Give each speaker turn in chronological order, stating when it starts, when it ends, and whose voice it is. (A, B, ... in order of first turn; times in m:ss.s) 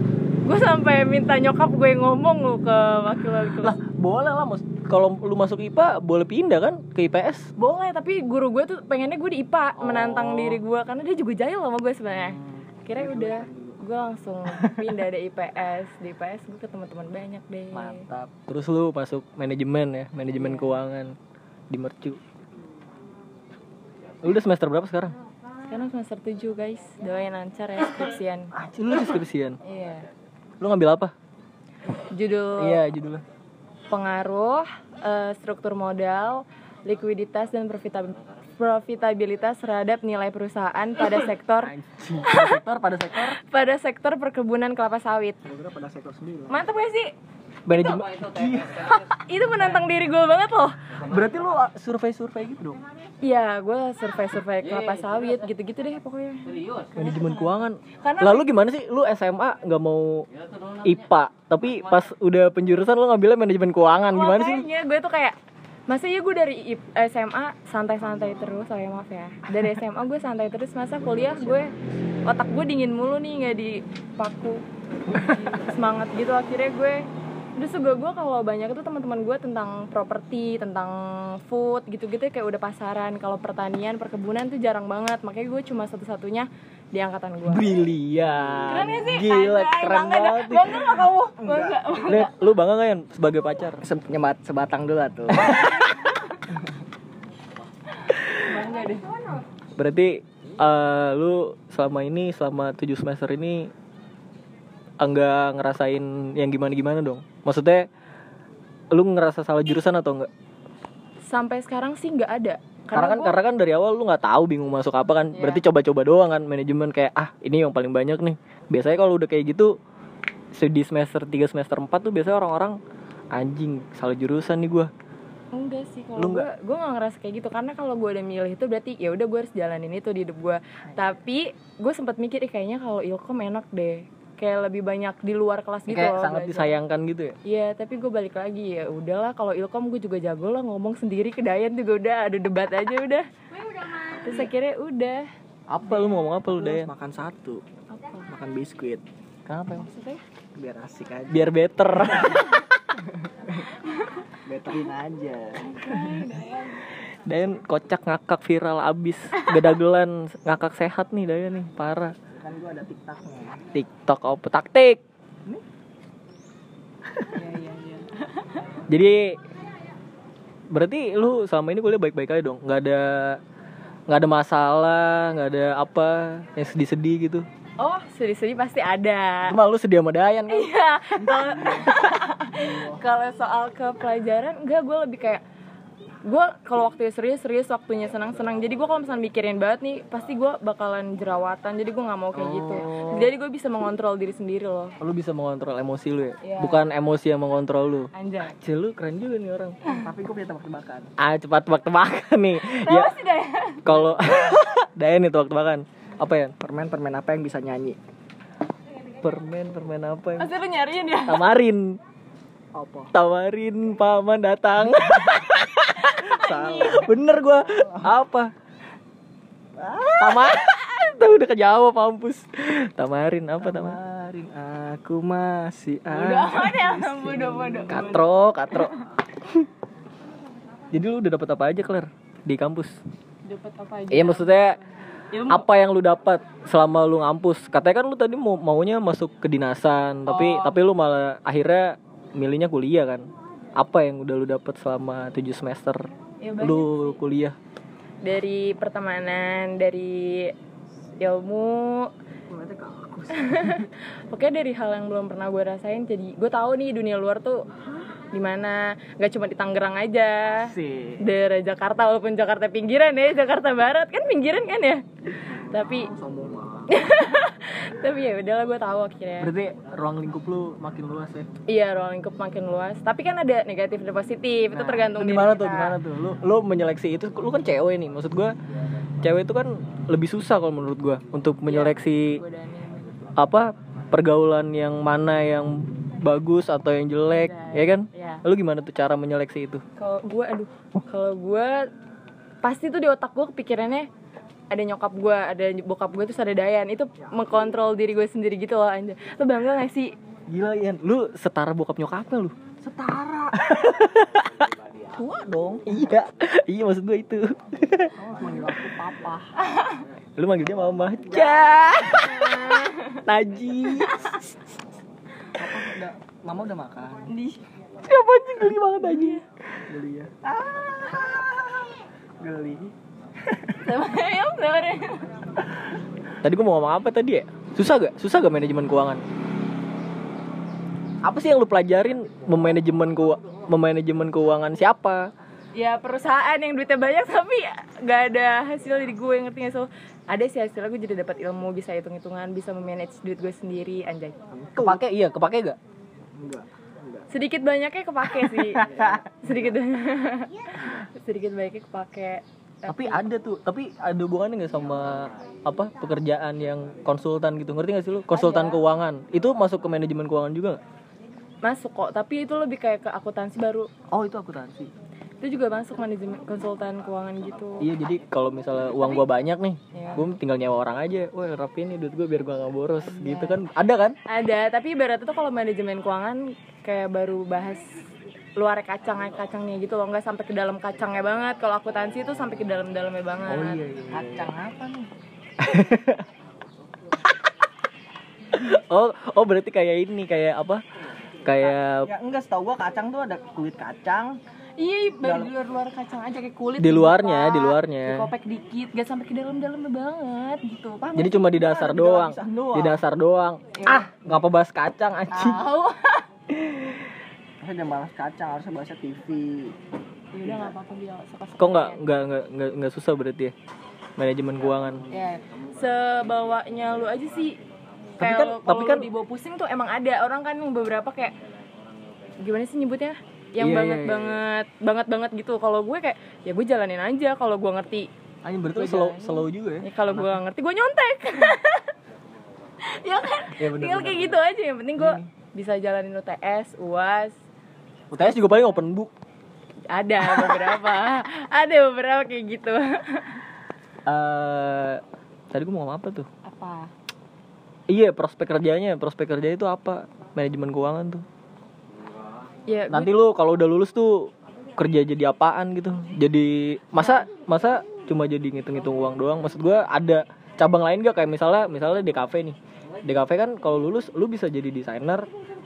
0:00.4-0:03.8 A
0:03.6-0:07.5 B
0:07.6-0:18.1 A
0:09.8-0:10.6 B
0:12.1-0:12.6 B
0:12.9-0:13.8 C
0:17.7-0:21.1 B
0:20.4-0:20.8 A
0:21.7-0:22.2 B
0:24.2-0:25.2 B
0:25.7-0:28.5 A
0:28.6-0:29.6 B
0:29.6-0:30.0 A
0:30.6-0:31.1 B
0:31.9-0:32.8 A
0:32.6-0:33.2 B
0:33.9-0:42.6 A
0:41.6-0:43.4 B
0:43.2-0:45.4 A
0:45.4-0:46.6 C
0:46.5-0:47.1 A
0:47.6-0:48.9 B
0:47.7-0:48.0 A
0:48.7-0:50.8 A
0:51.0-0:52.8 B
0:53.2-0:56.5 A
0:56.9-1:00.3 B
0:57.9-0:58.5 A
1:00.8-1:04.6 B
1:04.1-1:05.4 A
1:05.9-1:11.7 A
1:08.1-1:08.6 C
1:12.2-1:27.7 A
1:27.5-1:31.1 B
1:28.7-1:32.3 A
1:31.4-1:31.8 C
1:32.0-1:33.8 B
1:33.8-1:35.8 C
1:38.1-1:39.4 A
1:39.8-1:43.7 B
1:45.0-1:47.9 B
1:48.9-1:50.3 B
1:51.3-1:53.3 A
1:52.9-1:59.7 B
1:55.3-1:55.6 A
2:00.5-2:02.8 B
2:03.3-2:04.9 B
2:05.5-2:16.8 A
2:06.2-2:06.5 B
2:15.9-2:17.3 B
2:17.4-2:23.2 A
2:24.0-2:25.3 A
2:25.7-2:26.9 B
2:26.4-2:27.6 C
2:27.9-2:28.2 A
2:28.3-2:29.0 C
2:29.4-2:29.9 B
2:29.7-2:30.2 A
2:30.5-2:31.6 C
2:31.3-2:32.6 B
2:34.4-2:35.7 C
2:35.6-2:36.8 A
2:35.8-2:36.4 B
2:37.2-2:42.1 B
2:42.3-2:43.7 C
2:43.7-2:45.0 B
2:47.3-2:48.6 A
2:48.9-2:49.4 B
2:50.7-2:53.4 B
2:54.1-2:57.4 B
2:57.8-2:59.6 A
2:59.5-3:00.7 B
3:00.5-3:05.4 A
3:01.2-3:03.0 C
3:06.2-3:14.9 A
3:12.3-3:13.3 B
3:15.0-3:19.8 B
3:16.4-3:16.8 A
3:18.1-3:18.6 A
3:19.8-3:21.1 C
3:21.2-3:23.2 B
3:22.6-3:24.0 A
3:23.8-3:26.5 B
3:26.6-3:28.0 C
3:29.2-3:30.5 B
3:30.4-3:31.4 A
3:31.3-3:32.0 B
3:32.7-3:33.1 C
3:33.1-3:38.5 B
3:34.9-3:35.4 C
3:36.2-3:37.1 A
3:36.3-3:37.2 C
3:37.7-3:38.1 C
3:39.8-3:40.7 C
3:40.2-3:44.0 B
3:43.6-3:48.0 C
3:46.1-3:49.0 A
3:47.9-3:48.9 B
3:50.9-3:53.0 B
3:53.4-3:55.7 A
3:54.1-3:54.8 B
3:55.4-4:07.6 B
4:00.2-4:00.8 A
4:06.4-4:07.2 A
4:08.2-4:10.5 A
4:11.2-4:12.1 A
4:12.5-4:13.7 C
4:13.3-4:17.6 A
4:18.3-4:25.1 A
4:20.8-4:21.2 C
4:25.3-4:26.9 C
4:25.6-4:26.1 A
4:26.9-4:29.5 A
4:29.4-4:31.5 B
4:31.7-4:36.0 A
4:34.7-4:38.5 B
4:39.2-4:42.4 B
4:41.6-4:43.2 A
4:43.4-4:49.8 B
4:47.3-4:48.4 A
4:50.0-4:51.9 A
4:52.6-4:54.1 A
4:54.7-5:00.1 A
4:57.2-4:57.6 C
5:00.5-5:02.5 B
5:02.8-5:04.0 C
5:03.6-5:08.1 B
5:08.2-5:09.5 C
5:09.7-5:10.0 A
5:10.4-5:14.5 B
5:12.4-5:13.2 A
5:15.6-5:17.3 C
5:17.3-5:17.6 A
5:18.0-5:20.2 B
5:19.0-5:19.4 A
5:19.9-5:22.9 C
5:23.7-5:25.3 A
5:26.4-5:29.2 B
5:31.2-5:35.3 B
5:35.7-5:44.4 A
5:44.5-5:45.0 C
5:44.8-5:45.8 B
5:46.4-5:47.3 C
5:47.3-5:53.2 A
5:48.8-5:49.5 C
5:50.8-5:51.0 C
5:52.9-6:00.8 B
5:58.3-5:58.8 A
6:01.6-6:03.9 A
6:04.1-6:04.9 B
6:05.4-6:07.9 A
6:07.8-6:14.2 B
6:09.0-6:09.2 A
6:09.9-6:10.3 A
6:13.0-6:13.6 A
6:14.2-6:18.0 A
6:18.6-6:23.8 A
6:23.5-6:24.5 B
6:24.1-6:25.1 C
6:25.6-6:26.2 B
6:28.5-6:30.8 B
6:31.4-6:32.1 B
6:32.0-6:34.4 C
6:34.8-6:41.4 A
6:35.2-6:35.5 C
6:36.8-6:38.3 B
6:41.1-6:45.6 B
6:41.2-6:43.0 C
6:43.7-6:44.1 A
6:45.3-6:46.3 A
6:46.7-6:47.0 B
6:47.6-6:49.8 C
6:50.3-6:52.1 A
6:51.6-6:53.5 B
6:54.2-6:55.0 B
6:55.1-6:57.6 A
6:58.2-6:59.1 B
6:58.2-7:01.3 A
7:02.4-7:08.1 A
7:03.6-7:04.4 B
7:08.4-7:10.3 B
7:08.7-7:11.9 A
7:12.8-7:17.3 A
7:13.5-7:14.4 B
7:15.0-7:15.3 B
7:18.1-7:19.1 B
7:18.2-7:18.8 A
7:19.9-7:23.4 A
7:20.3-7:20.6 B
7:24.1-7:25.0 B
7:25.5-7:26.2 B
7:26.4-7:26.9 A
7:27.9-7:31.2 B
7:32.7-7:33.1 A
7:32.9-7:45.3 B